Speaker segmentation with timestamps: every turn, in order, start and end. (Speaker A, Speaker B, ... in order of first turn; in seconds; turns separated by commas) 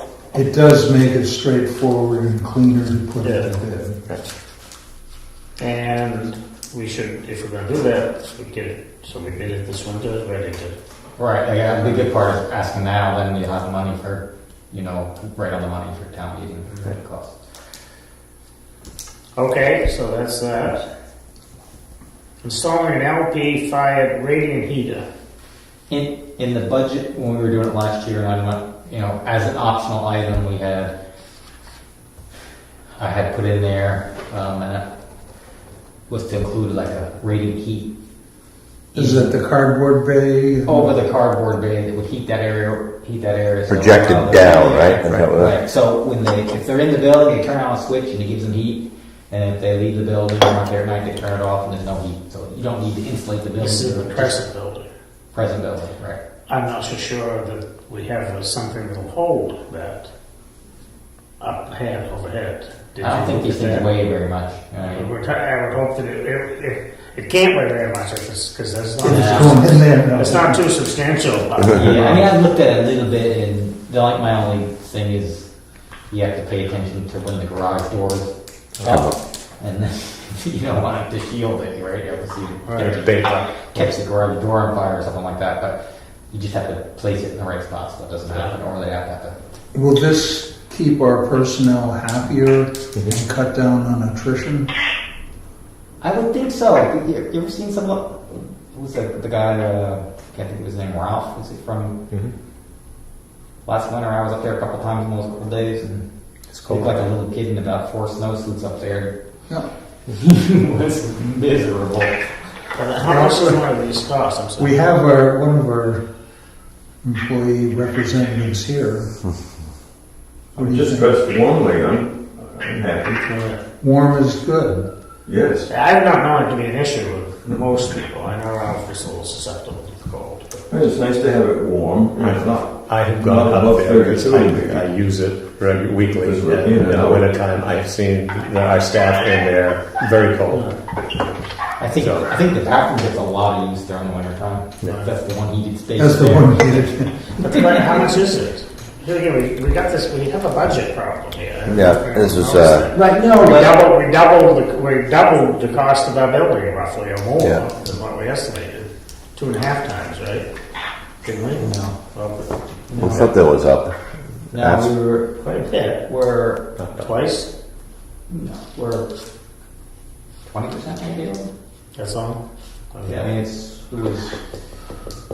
Speaker A: 0.3-4.0, Speaker B: 3.2-3.5, Speaker B: 5.6-10.8, Speaker C: 11.2-17.4, Speaker B: 19.4-20.9, Speaker B: 22.4-25.1, Speaker C: 25.9-30.9, Speaker C: 33.0-34.8, Speaker C: 36.1-37.9, Speaker C: 38.9-39.4, Speaker A: 38.9-41.0, Speaker C: 40.7-54.4, Speaker D: 43.7-45.6, Speaker E: 45.1-45.3, Speaker B: 53.6-54.9, Speaker C: 55.3-56.2, Speaker B: 56.5-60.1, Speaker B: 61.4-63.9, Speaker C: 63.0-65.1, Speaker B: 64.9-72.0, Speaker C: 69.0-69.6, Speaker A: 69.0-70.6, Speaker C: 71.7-75.5, Speaker C: 76.1-83.2, Speaker B: 82.7-82.9, Speaker E: 82.8-84.0, Speaker C: 83.7-85.8, Speaker C: 86.3-89.4, Speaker A: 89.7-94.7, Speaker C: 96.0-102.0, Speaker C: 103.7-112.5, Speaker E: 106.5-106.9, Speaker B: 112.8-114.8, Speaker A: 113.0-113.6, Speaker A: 114.6-116.0, Speaker A: 117.0-119.1, Speaker A: 120.6-121.2, Speaker F: 120.6-123.2, Speaker B: 123.3-123.6, Speaker A: 123.8-124.9, Speaker F: 125.3-125.7, Speaker B: 125.7-130.6, Speaker F: 130.7-134.9, Speaker E: 132.2-140.7, Speaker F: 136.2-137.3, Speaker B: 140.5-140.8, Speaker C: 141.8-147.7, Speaker E: 141.9-142.4, Speaker A: 146.0-147.3, Speaker B: 147.4-160.5, Speaker D: 151.7-152.9, Speaker C: 152.9-153.8, Speaker D: 157.4-157.6, Speaker B: 161.2-163.3, Speaker C: 161.6-161.9, Speaker C: 162.9-163.3, Speaker D: 163.0-163.9, Speaker C: 164.5-165.5, Speaker D: 164.5-164.9, Speaker B: 165.4-166.1, Speaker C: 166.0-166.7, Speaker E: 166.8-167.1, Speaker B: 166.9-167.5, Speaker C: 168.3-169.1, Speaker C: 170.5-171.5, Speaker B: 171.9-172.4, Speaker B: 172.9-173.3, Speaker C: 173.1-174.4